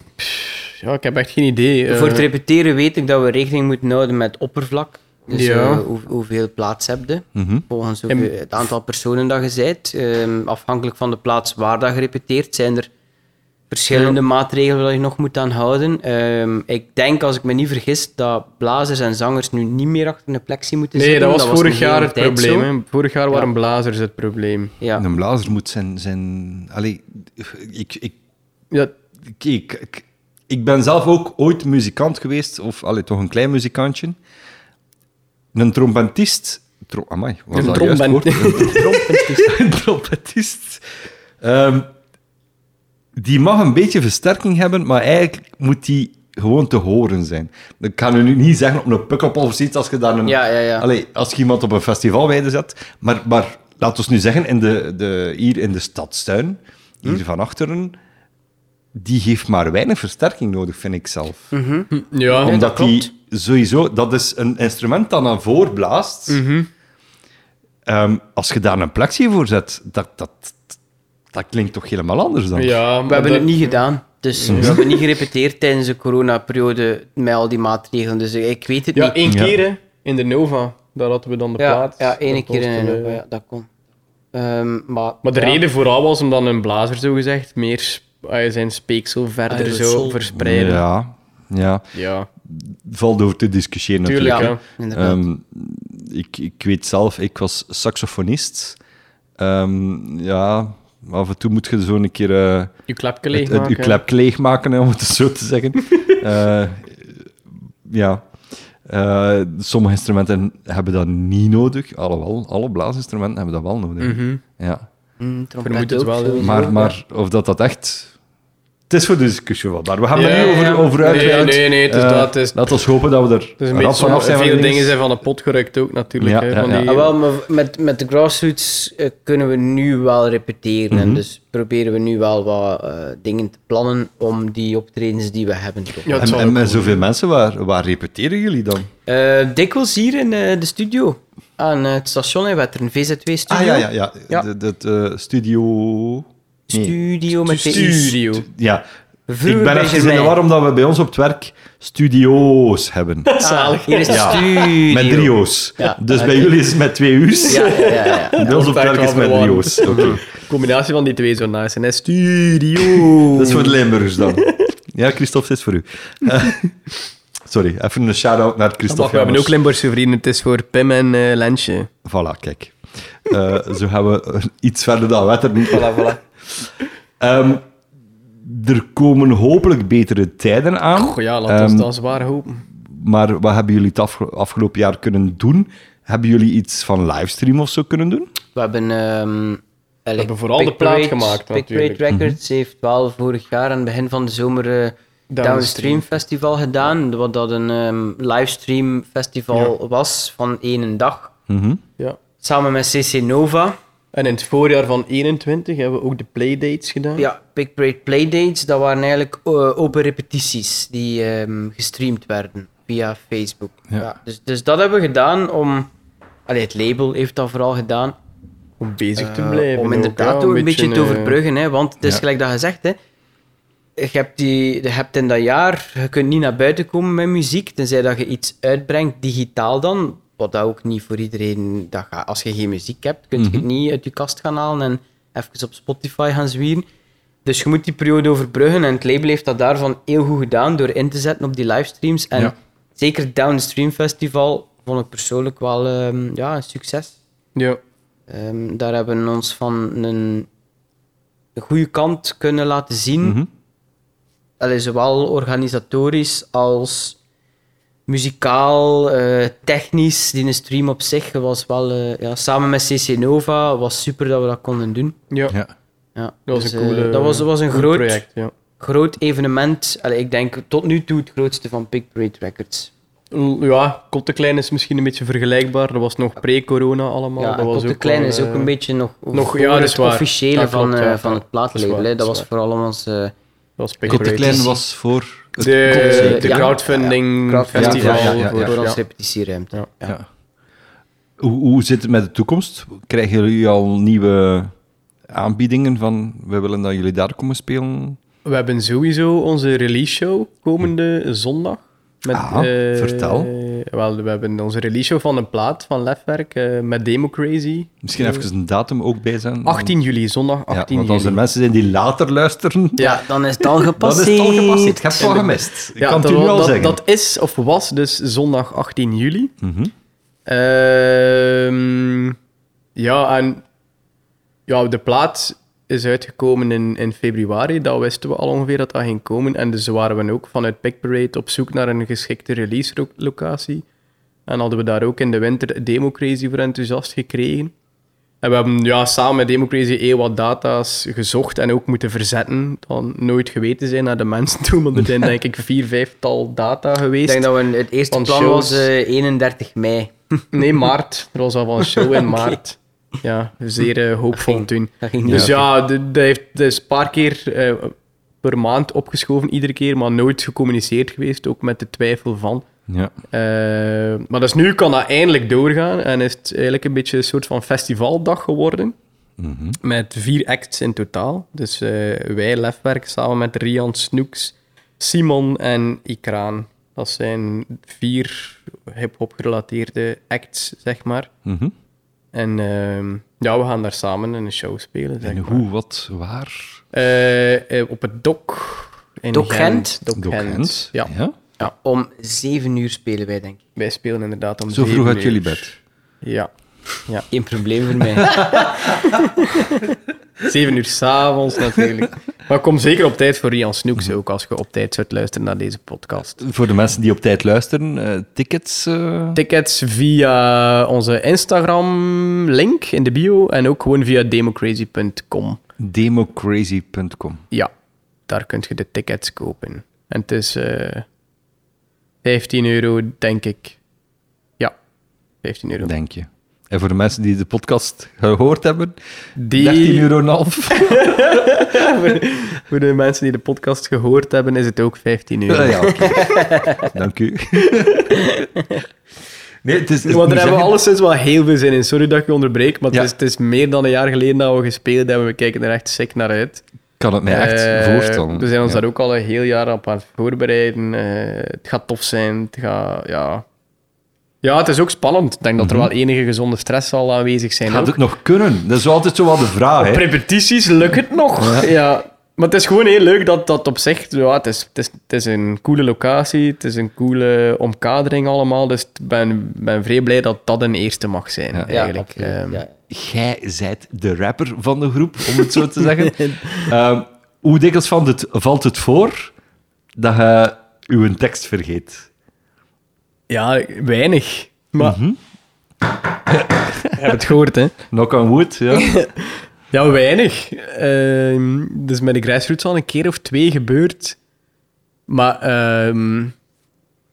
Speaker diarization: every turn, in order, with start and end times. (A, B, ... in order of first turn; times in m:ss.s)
0:00.2-0:02.3 A
0:01.9-0:12.9 B
0:05.3-0:05.8 A
0:07.4-0:07.6 C
0:13.7-0:22.7 B
0:13.9-0:14.2 A
0:21.0-0:24.7 A
0:25.0-0:28.2 C
0:29.4-0:34.2 C
0:35.5-0:40.8 C
0:37.5-0:39.2 A
0:38.6-0:39.5 B
0:41.4-0:41.9 C
0:43.2-0:58.0 C
0:50.3-0:50.9 B
0:59.0-1:01.5 C
1:01.5-1:03.1 B
1:01.9-1:02.6 A
1:02.4-1:06.4 C
1:06.3-1:06.7 A
1:07.9-1:10.8 C
1:11.3-1:12.8 C
1:12.6-1:13.8 A
1:13.1-1:19.2 B
1:14.4-1:14.9 A
1:14.5-1:14.8 C
1:19.0-1:23.2 A
1:19.3-1:19.6 C
1:21.6-1:23.7 B
1:24.3-1:25.6 B
1:25.2-1:30.8 A
1:29.5-1:30.2 B
1:30.4-1:31.8 C
1:31.9-1:32.3 A
1:32.4-1:38.8 C
1:34.0-1:34.6 A
1:34.2-1:35.2 B
1:39.4-1:42.7 C
1:42.9-1:44.0 A
1:43.3-1:47.2 C
1:47.9-1:48.3 C
1:48.8-1:54.9 C
1:54.0-1:54.4 A
1:55.2-1:56.9 B
1:55.6-1:56.6 A
1:56.4-1:58.1 C
1:58.9-2:05.0 C
2:00.1-2:02.8 A
2:00.2-2:01.4 B
2:03.6-2:07.1 A
2:06.2-2:07.0 C
2:06.8-2:16.3 B
2:10.9-2:11.2 C
2:16.0-2:17.0 A
2:16.2-2:18.9 C
2:19.1-2:24.5 B
2:23.5-2:27.0 C
2:26.7-2:28.3 B
2:27.3-2:28.5 A
2:28.5-2:28.8 C
2:29.3-2:30.4 B
2:29.4-2:33.3 C
2:33.3-2:34.7 A
2:33.4-2:36.6 B
2:34.0-2:40.2 C
2:37.5-2:44.7 A
2:37.5-2:38.4 B
2:39.9-2:40.1 B
2:43.3-2:46.8 C
2:47.5-2:49.6 C
2:48.9-2:51.9 A
2:52.0-2:56.1 C
2:55.7-2:56.2 B
2:57.2-2:57.7 C
2:58.4-3:01.9 C
3:01.0-3:02.6 A
3:02.8-3:08.3 C
3:08.6-3:21.3 B
3:10.2-3:12.0 A
3:12.1-3:12.4 C
3:15.3-3:16.2 A
3:21.5-3:21.8 C
3:22.4-3:23.8 B
3:24.1-3:27.3 A
3:27.2-3:35.9 B
3:36.5-3:38.2 B
3:38.8-3:41.4 A
3:39.2-3:43.0 B
3:44.0-3:56.9 B
3:53.4-3:53.7 C
3:57.4-4:07.2 B
4:07.6-4:07.8 A
4:08.3-4:10.5 B
4:11.6-4:13.4 B
4:13.2-4:13.5 C
4:14.6-4:17.2 B
4:18.1-4:25.2 B
4:26.2-4:28.2 B
4:26.5-4:28.5 A
4:28.8-4:32.9 B
4:33.3-4:38.7 A
4:37.4-4:43.3 B
4:39.3-4:42.5 A
4:43.8-4:44.6 A
4:44.0-4:44.8 B
4:44.1-4:46.7 C
4:45.6-4:49.0 A
4:45.9-4:50.2 B
4:47.8-4:48.7 C
4:51.4-4:54.7 C
4:55.3-4:58.2 C
4:58.4-5:08.5 A
5:02.3-5:03.5 C
5:08.0-5:10.0 C
5:09.6-5:11.4 A
5:10.7-5:13.0 C
5:13.0-5:13.2 A
5:13.0-5:15.4 B
5:14.0-5:17.0 C
5:15.2-5:19.5 A
5:19.6-5:19.9 C
5:20.5-5:22.4 A
5:23.0-5:23.6 A
5:24.7-5:33.8 A
5:34.5-5:37.7 A
5:38.4-5:47.5 A
5:47.2-5:50.5 B
5:48.1-5:48.9 A
5:50.5-6:02.7 A
5:51.9-5:52.6 B
5:54.4-5:55.7 B
6:02.9-6:03.2 C
6:03.3-6:09.0 A
6:09.4-6:09.8 C
6:09.8-6:21.3 A
6:21.5-6:21.7 C
6:22.3-6:25.6 A
6:25.2-6:26.8 C
6:26.9-6:31.7 A
6:29.3-6:30.0 B
6:30.2-6:31.4 C
6:31.6-6:33.6 B
6:33.8-6:35.7 A
6:34.7-6:35.8 C
6:36.2-6:36.5 A
6:37.3-6:39.8 B
6:38.2-6:39.1 C
6:40.4-6:46.4 A
6:46.4-6:49.4 C
6:49.4-6:55.6 A
6:55.8-6:57.4 C
6:58.3-7:01.0 A
7:02.2-7:03.8 A
7:05.4-7:05.9 A
7:05.8-7:09.0 C
7:09.4-7:10.1 A
7:09.5-7:11.2 C
7:10.7-7:16.3 A
7:15.5-7:18.2 C
7:16.2-7:16.8 B
7:17.6-7:18.3 A
7:19.6-7:20.8 C
7:20.1-7:26.6 A
7:27.0-7:28.8 C
7:27.3-7:33.4 A
7:34.4-7:38.0 A
7:35.6-7:35.9 C
7:37.7-7:40.1 C
7:39.8-7:52.6 A
7:41.4-7:41.7 C
7:51.7-7:52.7 B
7:52.9-7:59.3 C
7:55.5-7:56.7 A
8:00.0-8:02.1 C
8:03.3-8:05.0 A
8:04.8-8:05.2 C
8:06.3-8:07.0 C
8:06.9-8:07.8 A
8:07.9-8:08.9 C
8:08.7-8:14.2 A
8:15.1-8:16.4 A